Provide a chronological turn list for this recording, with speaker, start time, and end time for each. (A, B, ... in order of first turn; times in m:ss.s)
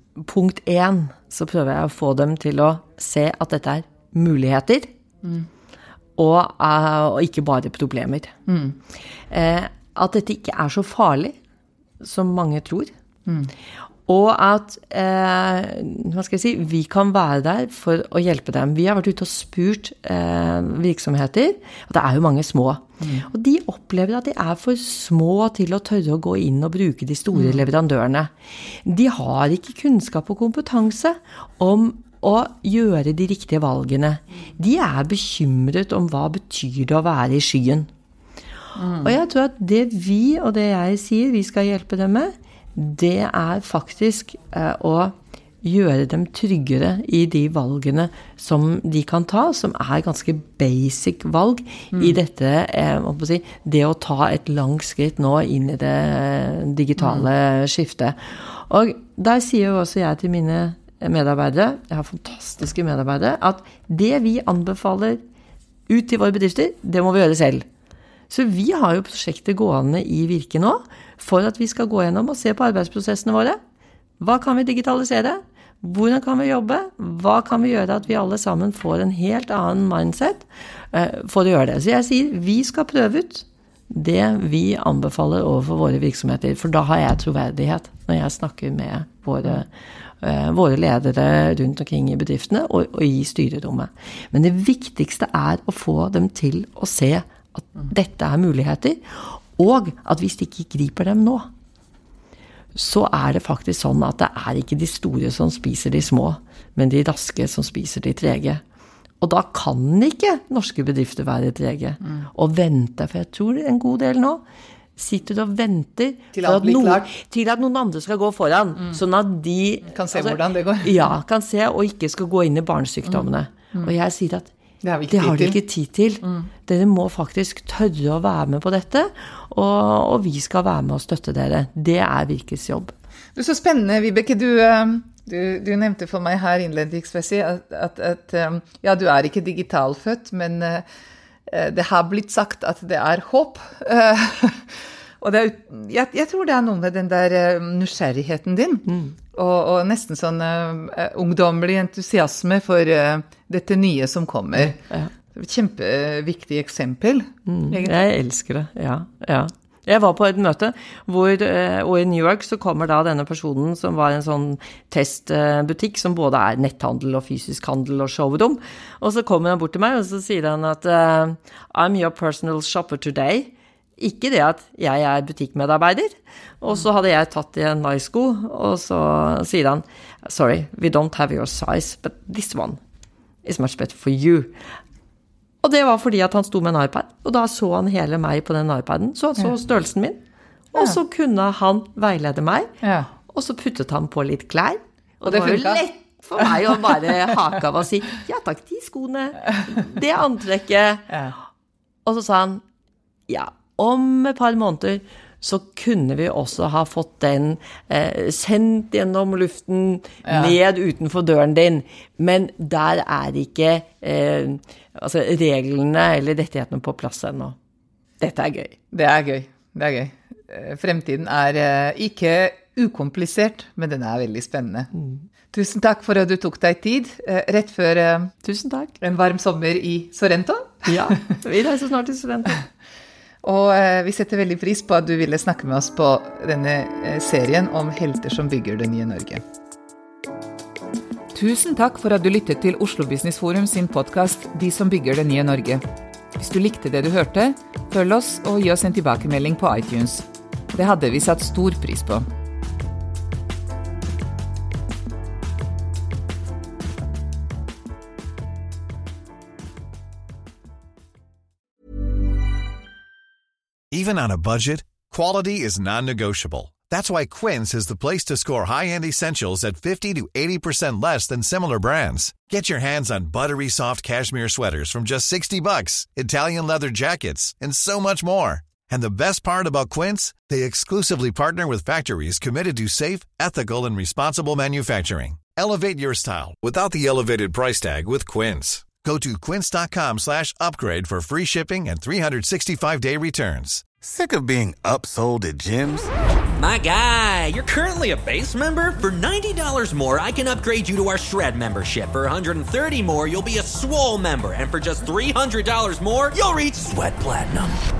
0:00.2-0:04.9 A
0:06.2-0:08.3 A
0:08.5-0:08.8 B
0:09.3-0:11.4 A
0:12.0-0:12.9 A
0:13.3-0:13.5 B
0:14.1-0:37.9 A
0:23.0-0:23.2 B
0:27.3-0:27.6 B
0:38.8-0:39.1 B
0:39.0-1:05.2 A
0:51.9-0:52.2 B
0:57.0-0:57.3 B
1:05.9-1:07.6 A
1:08.3-1:13.6 A
1:14.2-1:29.7 A
1:30.2-1:41.5 A
1:42.8-1:48.6 A
1:49.2-1:54.4 A
1:55.0-2:04.5 A
1:56.3-1:57.1 B
1:59.9-2:01.1 B
2:03.1-2:03.9 B
2:04.8-2:05.6 B
2:05.1-2:12.9 A
2:13.4-2:20.9 B
2:21.5-2:34.8 B
2:28.9-2:29.1 A
2:35.3-2:38.1 B
2:37.5-3:02.8 A
3:03.4-3:04.5 A
3:05.6-3:10.2 A
3:10.7-3:12.7 A
3:12.8-3:13.1 B
3:13.3-3:21.1 A
3:15.2-3:15.8 B
3:16.4-3:17.1 B
3:21.1-3:21.4 B
3:22.0-3:22.6 A
3:23.3-3:37.6 A
3:30.2-3:30.6 B
3:38.2-3:38.8 A
3:38.9-3:44.9 B
3:45.5-3:48.3 B
3:48.4-3:49.0 A
3:49.0-3:51.1 B
3:50.9-3:52.6 A
3:53.4-3:59.4 B
4:01.3-4:05.8 B
4:06.4-4:12.3 B
4:23.9-4:53.8 C
4:54.0-4:56.1 D
4:56.6-5:07.8 E